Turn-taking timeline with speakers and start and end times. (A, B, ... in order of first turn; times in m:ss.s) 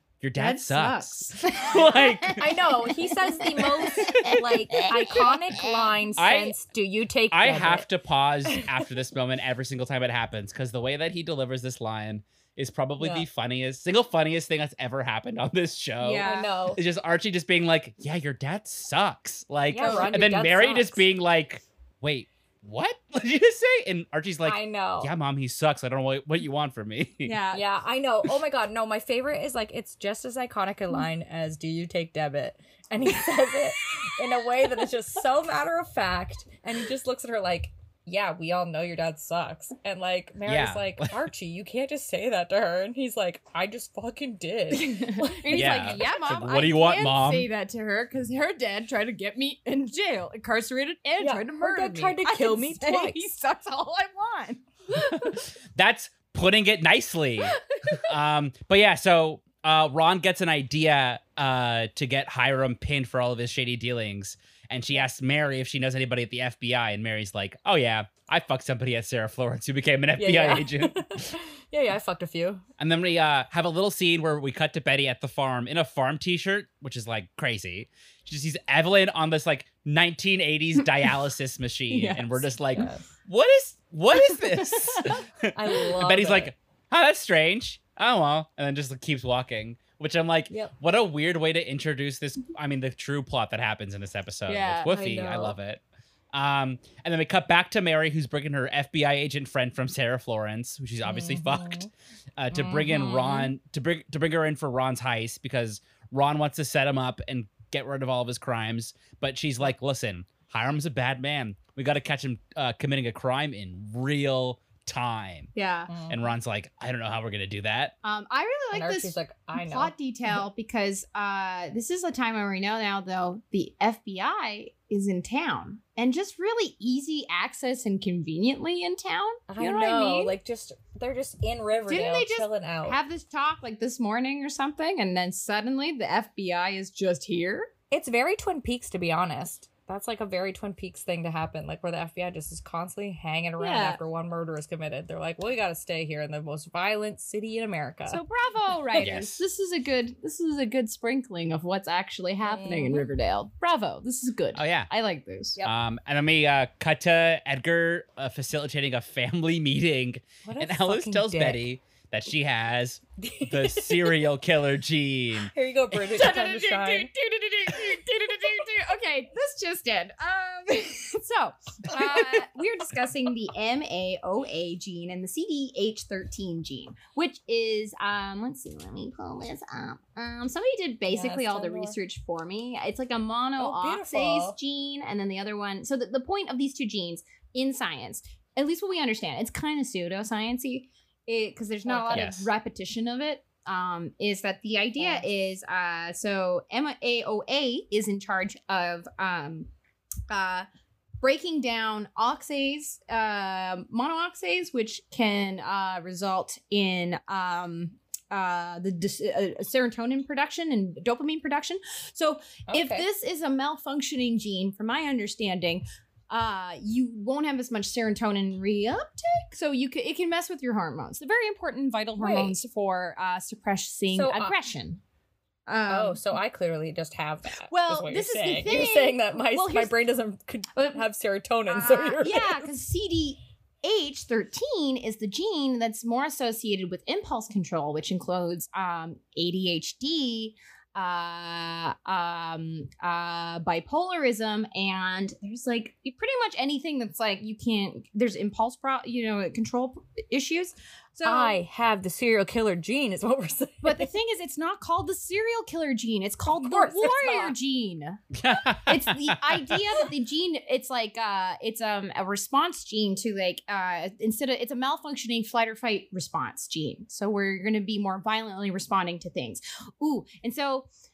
0:00.2-0:02.5 A
0:00.4-0:05.9 B
0:02.3-0:07.9 C
0:04.0-0:04.4 A
0:06.2-0:06.6 A
0:07.3-0:27.4 A
0:08.5-0:08.8 C
0:13.0-0:13.3 C
0:16.0-0:16.5 B
0:16.2-0:16.8 C
0:19.7-0:21.0 C
0:19.7-0:20.2 B
0:24.4-0:25.1 C
0:27.2-0:27.6 B
0:27.5-0:46.1 C
0:40.5-0:41.2 A
0:44.7-0:55.4 B
0:45.5-0:47.5 A
0:51.2-0:53.3 C
0:54.9-1:11.3 A
0:57.7-0:58.0 B
1:10.2-1:12.6 C
1:12.8-1:35.8 A
1:21.9-1:22.5 B
1:22.7-1:23.1 C
1:24.2-1:25.2 B
1:25.5-1:26.5 C
1:34.5-1:34.9 B
1:34.8-1:35.6 C
1:36.3-1:41.8 A
1:41.0-1:41.9 C
1:42.4-1:55.5 A
1:42.5-1:43.5 C
1:55.6-1:55.9 B
1:55.9-1:56.2 C
1:56.1-1:57.9 A
1:58.0-2:10.3 B
1:58.7-1:59.9 C
2:09.5-2:13.0 C
2:11.9-2:17.7 B
2:17.9-2:28.2 C
2:23.6-2:24.0 B
2:28.1-2:35.6 B
2:29.0-2:29.4 A
2:32.5-2:33.1 C
2:34.6-2:34.9 A
2:35.6-2:45.5 A
2:40.4-2:41.7 C
2:43.2-2:44.2 C
2:45.5-2:47.1 C
2:45.9-3:19.7 B
2:52.0-2:52.4 A
3:01.1-3:02.0 C
3:03.6-3:04.6 C
3:11.9-3:12.3 C
3:12.1-3:12.5 A
3:15.0-3:15.3 C
3:20.3-3:20.7 B
3:21.2-3:45.0 B
3:32.7-3:33.1 C
3:42.2-3:42.6 C
3:44.1-3:44.5 C
3:45.7-3:46.2 B
3:45.9-3:52.7 C
3:47.7-3:50.0 B
3:51.7-4:11.6 B
4:11.2-4:14.1 C
4:13.8-4:30.9 B
4:16.5-4:17.6 C
4:18.3-4:19.8 A